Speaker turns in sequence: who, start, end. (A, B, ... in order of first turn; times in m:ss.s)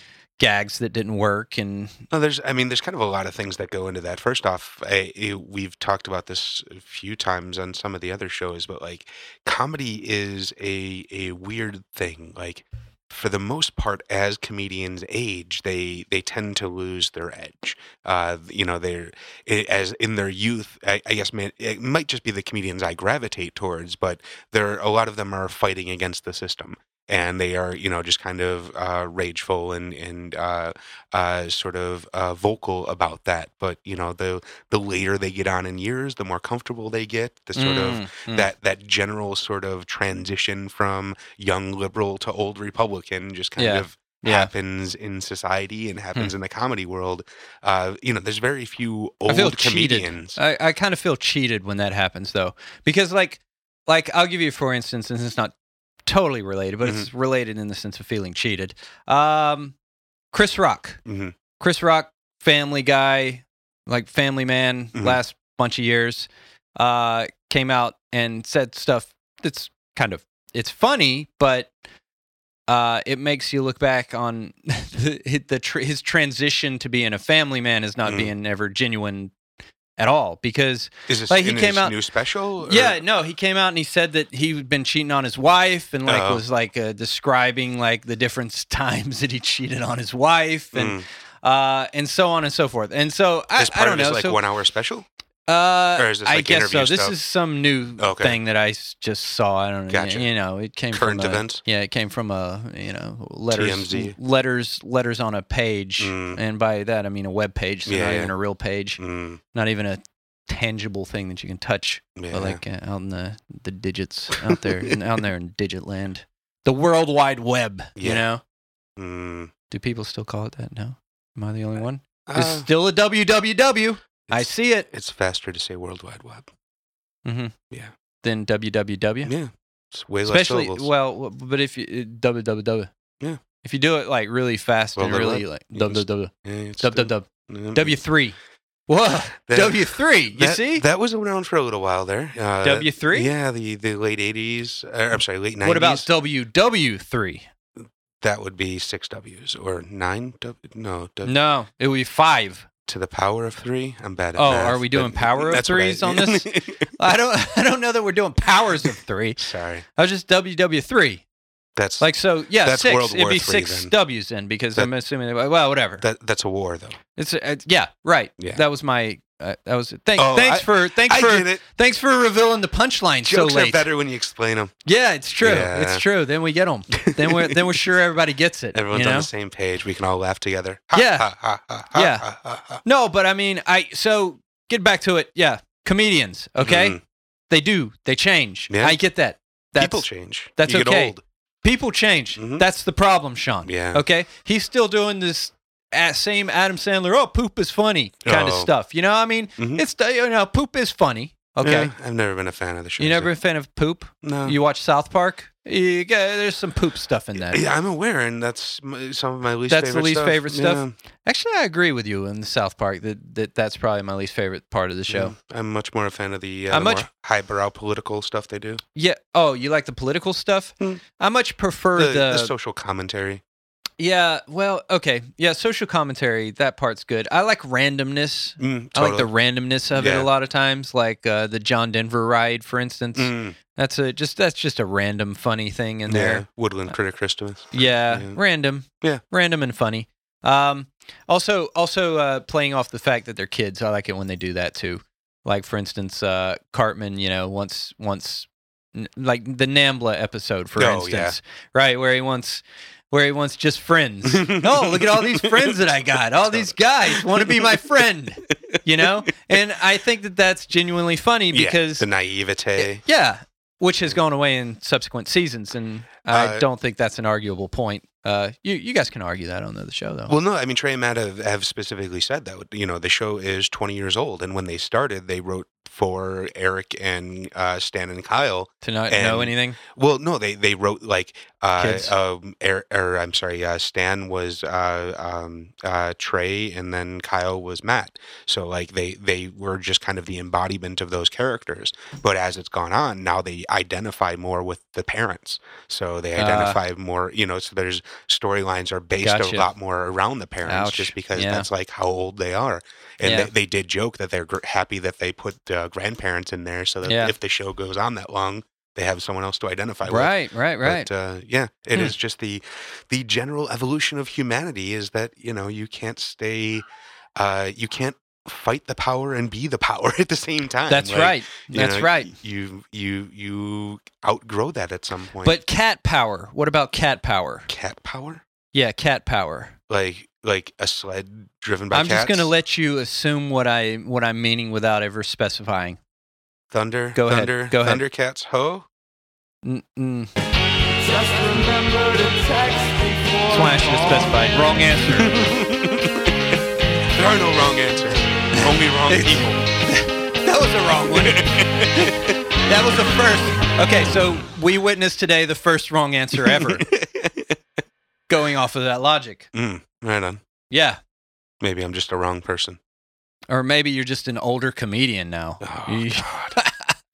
0:00.4-0:02.0 A
0:02.1-0:50.4 B
0:37.6-0:38.5 A
0:43.6-0:44.5 A
0:49.3-0:55.5 A
0:56.0-0:59.8 A
0:56.8-0:57.1 B
1:00.3-1:01.0 A
1:01.0-1:01.3 B
1:01.6-1:11.7 A
1:04.9-1:05.2 B
1:12.7-1:19.3 A
1:18.0-1:18.3 B
1:20.0-1:22.0 A
1:21.1-1:23.0 B
1:22.6-1:34.4 A
1:26.0-1:26.4 B
1:30.7-1:31.0 B
1:33.6-1:35.0 B
1:35.5-1:49.0 A
1:36.0-1:37.2 B
1:38.0-1:38.4 B
1:39.9-1:40.3 B
1:40.9-1:41.6 B
1:43.5-1:44.2 B
1:46.0-1:46.4 B
1:47.9-1:48.3 B
1:49.0-1:49.4 B
1:49.5-1:58.4 A
1:52.2-1:52.6 B
1:58.0-1:58.2 B
1:59.0-1:59.5 B
1:59.7-2:04.9 A
2:02.3-2:02.7 B
2:04.3-2:06.5 B
2:07.2-2:07.5 A
2:08.2-2:09.3 A
2:09.2-2:10.9 B
2:10.2-2:12.9 A
2:13.6-2:20.8 A
2:15.0-2:18.0 B
2:19.5-2:26.1 B
2:22.6-2:23.3 A
2:25.6-2:27.4 A
2:28.2-2:31.3 B
2:31.2-2:32.6 A
2:32.9-2:36.9 B
2:34.4-2:41.2 A
2:38.8-2:39.8 B
2:41.8-2:43.9 B
2:42.0-2:46.0 A
2:46.0-2:47.0 B
2:47.2-2:53.9 A
2:48.4-2:48.6 B
2:50.2-2:51.6 B
2:53.2-2:54.7 B
2:54.8-2:59.3 A
2:55.4-2:56.0 B
2:56.9-2:57.8 B
2:58.7-3:02.8 B
3:00.9-3:01.3 A
3:01.9-3:02.3 A
3:02.8-3:07.0 A
3:06.6-3:07.0 B
3:07.5-3:21.9 A
3:08.7-3:09.0 B
3:09.8-3:11.2 B
3:12.4-3:12.7 B
3:13.6-3:14.0 B
3:18.2-3:18.7 B
3:19.6-3:19.8 B
3:21.6-3:23.3 B
3:23.0-3:27.6 A
3:24.2-3:24.6 B
3:27.4-3:30.9 B
3:29.7-3:35.3 A
3:35.1-3:38.8 B
3:36.7-3:37.0 A
3:38.9-3:42.5 A
3:42.0-3:43.4 B
3:44.0-3:57.0 A
3:48.6-3:49.3 B
3:49.9-3:50.3 B
3:53.1-3:53.6 B
3:56.1-3:58.4 B
3:57.7-4:22.1 A
4:10.8-4:11.4 B
4:14.2-4:15.8 B
4:16.4-4:19.3 B
4:21.5-4:23.0 B
4:22.8-4:30.3 A
4:26.3-4:26.6 B
4:30.3-5:16.8 B
4:38.8-4:39.8 A
4:41.8-4:42.1 A
4:56.4-4:56.8 A
4:59.2-4:59.7 A
5:00.6-5:01.7 A
5:03.2-5:03.5 A
5:07.0-5:07.3 A
5:10.0-5:11.1 A
5:17.4-5:25.6 B
5:20.9-5:22.3 A
5:25.4-5:27.7 A
5:27.7-5:28.4 B
5:28.7-5:29.7 A
5:29.9-5:32.5 B
5:31.9-5:36.0 A
5:36.7-5:38.9 B
5:37.1-5:38.0 A
5:39.6-5:40.3 A
5:41.0-5:44.5 C
5:43.5-5:45.4 A
5:45.1-5:46.3 B
5:47.1-5:49.6 B
5:48.5-5:56.8 A
5:51.1-5:52.3 B
5:56.4-5:57.6 B
5:58.3-5:59.5 A
5:59.5-6:00.4 B
6:00.7-6:01.0 A
6:01.6-6:02.8 B
6:03.5-6:06.9 A
6:05.6-6:06.6 B